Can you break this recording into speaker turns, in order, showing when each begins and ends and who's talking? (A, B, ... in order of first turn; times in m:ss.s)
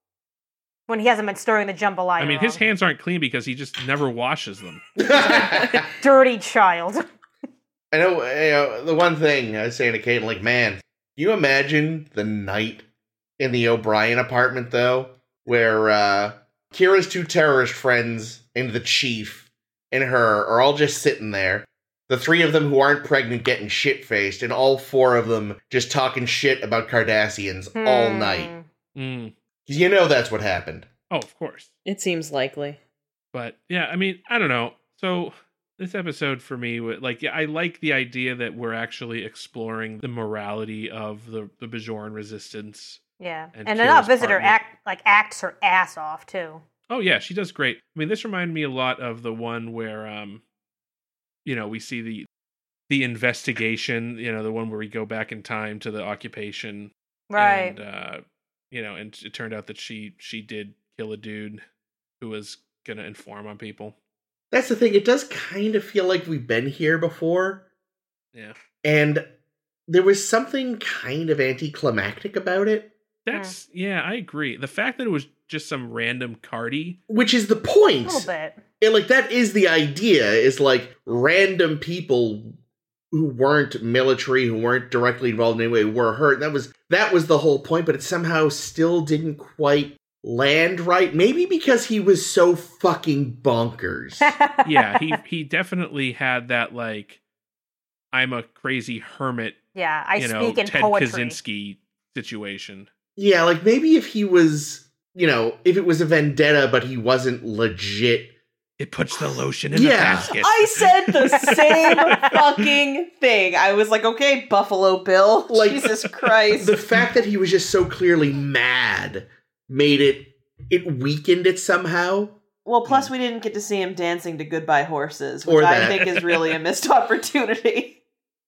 0:00.9-0:02.6 A
0:02.2-0:04.8 B
0:05.0-0:05.9 C
0:06.0-0:07.0 A
0:07.9-0:12.8 C
0:13.4-0:28.5 C
0:27.8-0:28.6 A
0:28.9-0:29.3 B
0:29.6-0:30.9 C
0:31.1-0:31.7 B
0:31.8-0:32.8 D
0:33.3-0:43.0 B
0:43.2-0:46.6 A
0:43.5-0:44.6 B
0:46.9-0:50.4 B
0:51.4-0:52.3 B
0:52.9-1:01.6 B
0:57.3-0:57.8 A
1:02.2-1:03.9 B
1:04.5-1:07.6 C
1:08.8-1:09.2 C
1:09.9-1:12.9 C
1:13.2-1:17.0 B
1:17.1-1:18.3 C
1:18.0-1:18.6 A
1:18.8-1:22.6 C
1:23.1-1:34.3 C
1:34.2-1:35.2 A
1:34.6-1:37.2 B
1:38.1-1:39.6 B
1:39.7-1:41.4 A
1:40.2-1:42.9 B
1:43.2-1:48.3 C
1:48.8-1:51.6 B
1:49.7-1:50.3 C
1:50.3-1:56.8 D
1:51.4-1:52.3 A
1:55.5-1:55.9 C
1:56.5-2:02.4 C
2:02.6-2:08.0 D
2:02.8-2:03.1 B
2:05.4-2:06.1 C
2:06.0-2:06.5 B